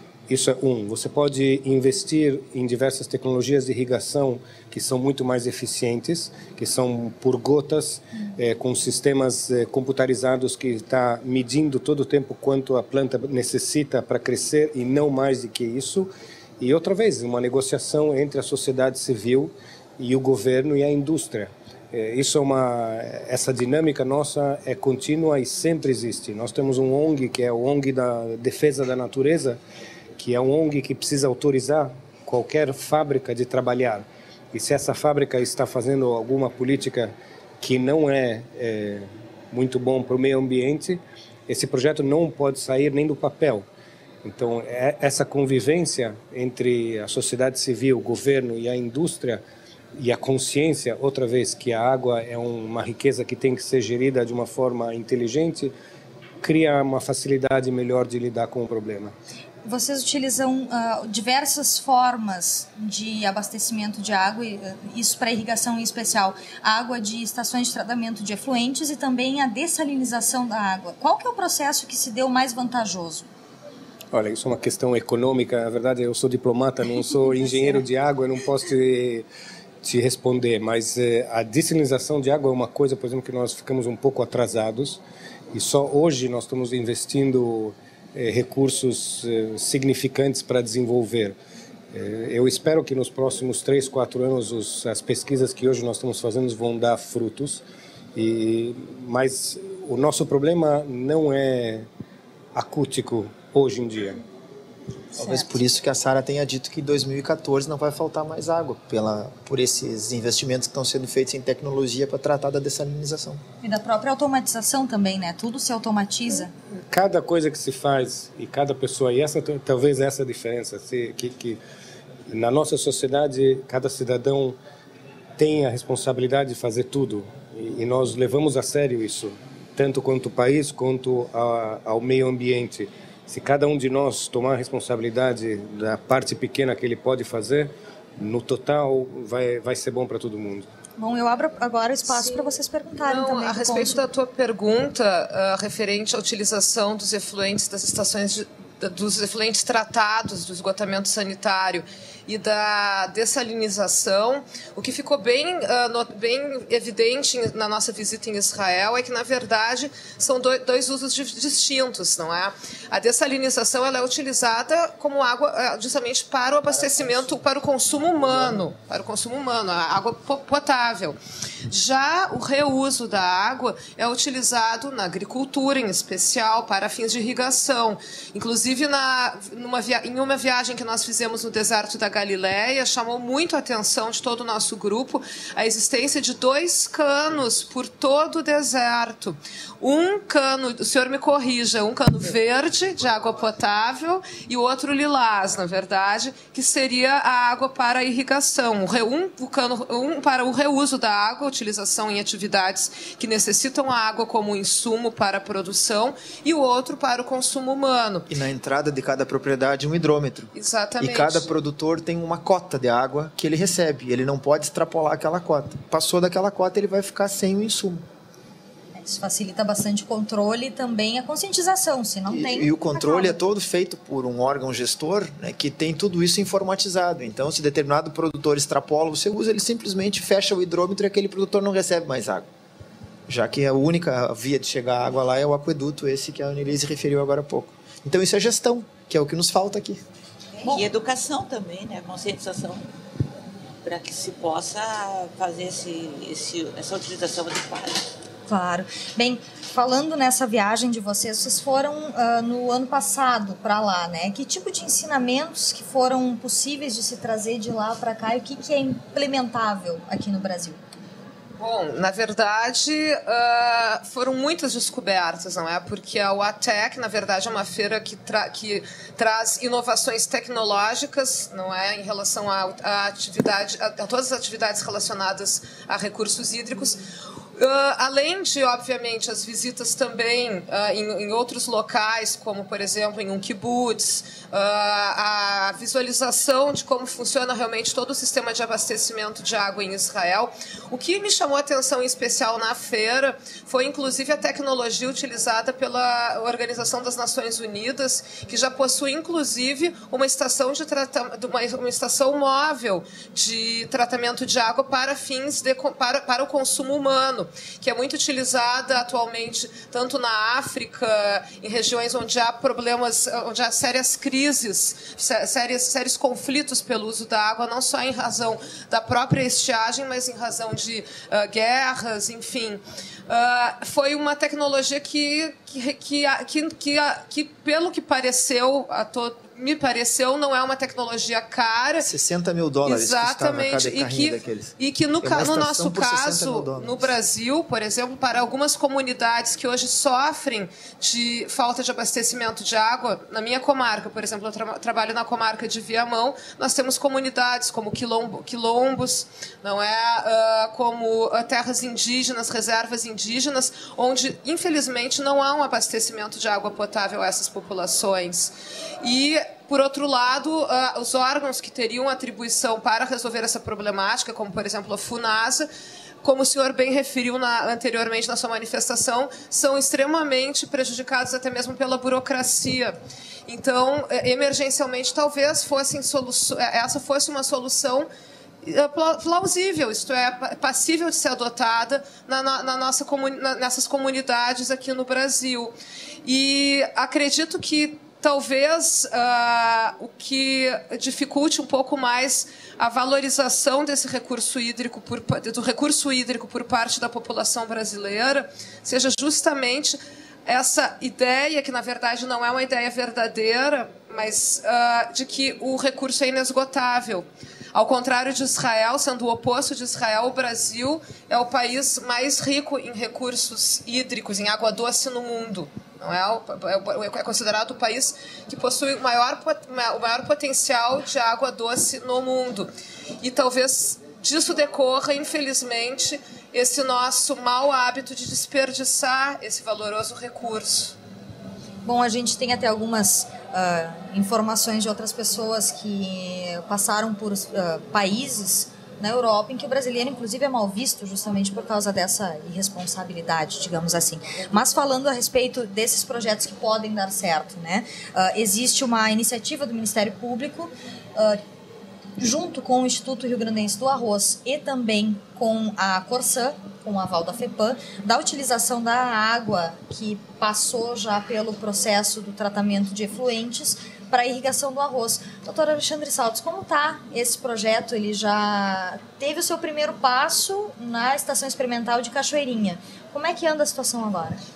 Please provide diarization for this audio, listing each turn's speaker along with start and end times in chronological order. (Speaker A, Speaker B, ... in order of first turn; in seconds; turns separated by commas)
Speaker A: 0.3-16.1, Speaker A: 16.6-29.6, Speaker A: 30.2-43.6, Speaker A: 44.2-49.4, Speaker A: 50.0-55.7, Speaker A: 56.4-59.1, Speaker B: 59.6-73.3, Speaker A: 74.1-79.2, Speaker A: 79.8-85.0, Speaker A: 85.5-91.3, Speaker A: 91.9-97.6, Speaker A: 98.1-101.8, Speaker A: 102.5-104.2, Speaker B: 105.1-105.5, Speaker C: 105.2-113.4, Speaker B: 113.6-116.5, Speaker A: 116.9-121.6, Speaker A: 122.3-124.6, Speaker A: 125.4-140.7, Speaker B: 141.0-144.0, Speaker D: 143.0-171.2, Speaker C: 166.9-167.2, Speaker D: 171.7-208.3, Speaker C: 208.3-218.0, Speaker D: 210.5-211.5, Speaker B: 219.0-223.3, Speaker C: 222.3-232.5, Speaker C: 233.3-240.0, Speaker E: 240.6-242.8, Speaker E: 243.8-248.0, Speaker B: 248.5-260.8, Speaker D: 261.6-277.0, Speaker D: 277.6-332.1, Speaker C: 332.0-337.1, Speaker D: 332.9-365.7, Speaker D: 366.2-372.9, Speaker D: 373.5-378.1, Speaker D: 378.6-385.7, Speaker D: 386.2-422.7, Speaker D: 423.2-430.9, Speaker B: 431.8-451.4, Speaker B: 452.2-474.4